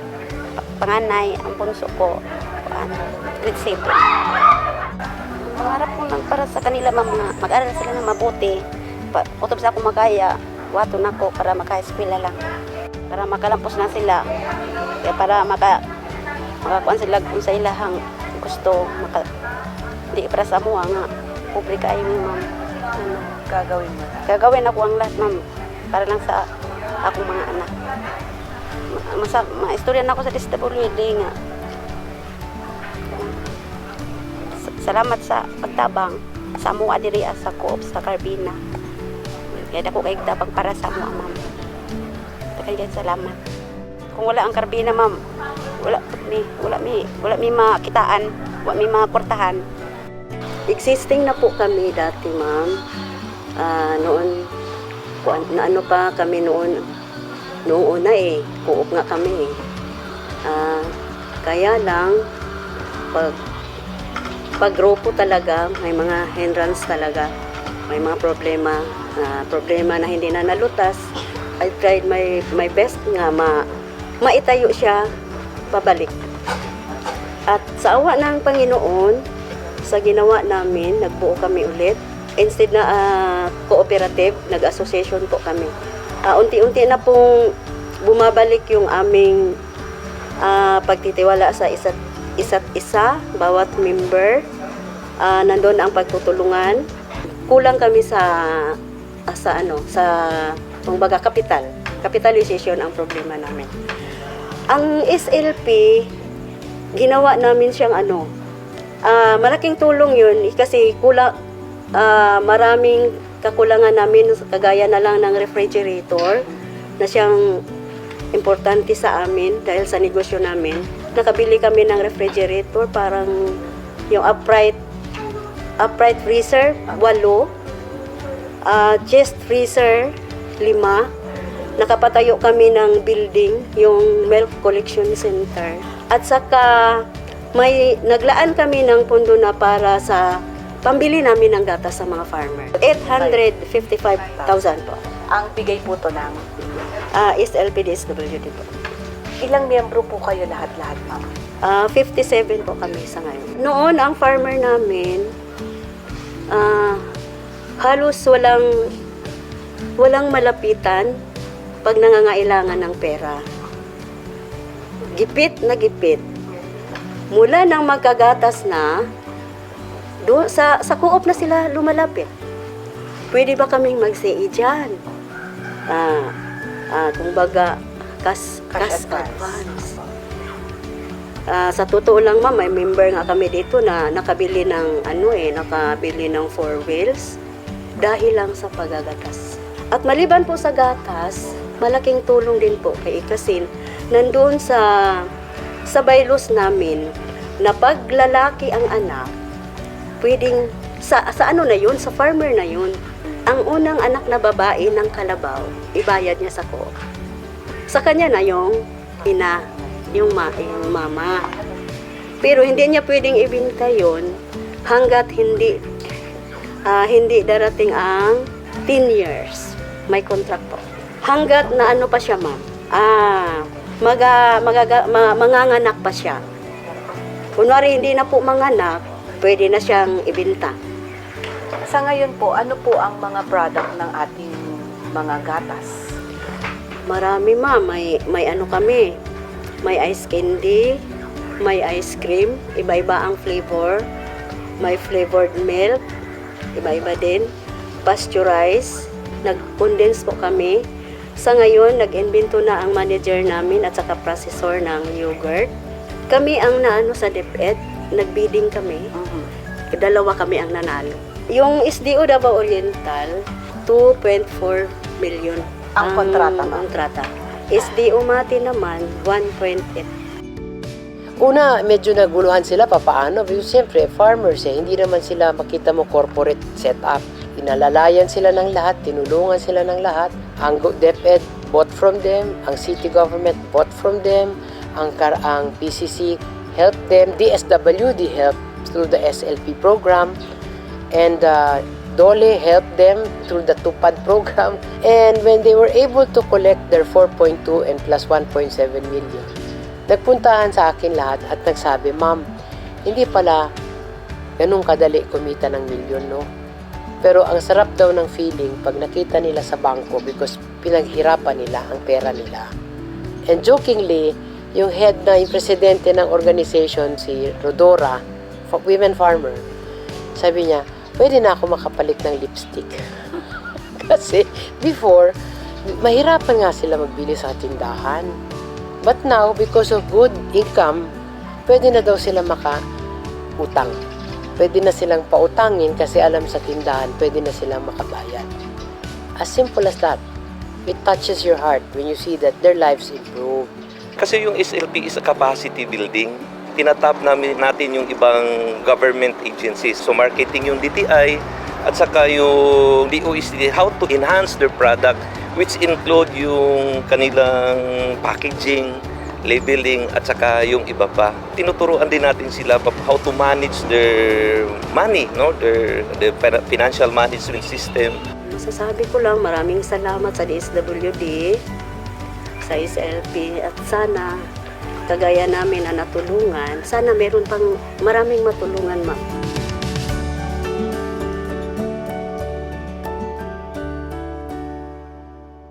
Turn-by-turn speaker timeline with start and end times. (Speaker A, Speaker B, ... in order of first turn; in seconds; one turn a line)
Speaker A: 0.8-2.1
Speaker A: 2.7-4.0
Speaker A: 5.5-8.6
Speaker A: 9.1-12.4
Speaker A: 13.1-14.2
Speaker A: 15.0-15.8
Speaker A: 16.6-19.2
Speaker A: 20.1-22.4
Speaker A: 23.0-23.3
Speaker B: 23.5-24.3
Speaker A: 24.3-26.4
Speaker A: 27.0-27.7
Speaker A: 29.0-31.3
Speaker A: 34.8-38.6
Speaker A: 39.6-41.4
Speaker A: 42.6-43.4
Speaker A: 44.1-45.1
Speaker A: 45.8-49.6
Speaker C: 50.7-52.8
Speaker C: 53.6-54.3
Speaker C: 55.2-56.8
Speaker C: 57.7-59.5
Speaker C: 60.5-60.9
Speaker C: 61.4-62.1
Speaker C: 64.6-67.3
Speaker C: 67.9-71.1
Speaker C: 71.6-73.6
Speaker C: 74.2-75.0
Speaker C: 75.7-76.2
Speaker C: 77.5-79.2
Speaker C: 79.9-85.7
Speaker C: 86.3-87.2
Speaker C: 88.0-89.4
Speaker C: 90.4-94.4
Speaker C: 95.2-96.8
Speaker C: 97.5-98.3
Speaker C: 99.3-100.1
Speaker C: 100.8-103.7
Speaker C: 104.7-106.1
Speaker C: 107.0-108.3
Speaker C: 109.1-111.3
Speaker C: 112.0-116.4
Speaker C: 117.0-117.4
Speaker C: 118.3-123.5
Speaker C: 124.1-124.8
Speaker C: 125.8-127.5
Speaker C: 128.7-131.1
Speaker C: 131.8-137.0
Speaker C: 137.5-140.2
Speaker C: 140.8-145.0
Speaker B: 145.3-146.4
Speaker C: 147.2-148.7
Speaker B: 149.4-151.3
Speaker C: 151.6-155.3
Speaker C: 156.5-157.0
Speaker C: 157.8-158.6
Speaker C: 160.0-161.1
Speaker C: 161.8-163.4
Speaker C: 165.1-166.2
Speaker C: 167.3-168.9
Speaker C: 170.2-172.3
Speaker C: 173.3-175.0
Speaker C: 175.9-176.3
Speaker C: 176.9-179.8
Speaker B: 178.7-179.9
Speaker C: 181.5-187.4
Speaker C: 188.0-194.8
Speaker C: 195.9-199.3
Speaker C: 200.2-203.0
Speaker C: 203.5-206.9
Speaker C: 207.9-211.4
Speaker C: 212.4-214.3
Speaker C: 214.9-215.8
Speaker C: 216.9-226.4
Speaker C: 227.6-230.8
Speaker B: 231.9-235.9
Speaker C: 237.1-239.1
Speaker C: 239.8-240.9
Speaker C: 241.6-244.0
Speaker C: 244.8-246.0
Speaker C: 246.8-247.5
Speaker C: 248.0-250.8
Speaker C: 251.4-255.7
Speaker C: 256.3-259.1
Speaker B: 259.2-259.5
Speaker C: 259.9-263.3
Speaker C: 263.9-270.1
Speaker B: 266.0-266.9
Speaker D: 271.4-290.3
Speaker D: 291.1-299.5
Speaker D: 300.1-302.4
Speaker D: 303.0-303.7
Speaker D: 304.6-306.4
Speaker D: 307.2-312.7
Speaker D: 313.5-319.6
Speaker D: 320.3-323.0
Speaker D: 324.1-325.3
Speaker D: 325.9-328.3
Speaker D: 329.0-331.1
Speaker D: 331.7-332.8
Speaker D: 333.6-334.0
Speaker D: 334.6-338.5
Speaker D: 339.4-340.2
Speaker D: 340.9-343.7
Speaker E: 344.2-368.2
Speaker C: 368.5-371.6
Speaker C: 372.6-374.3
Speaker C: 375.1-379.2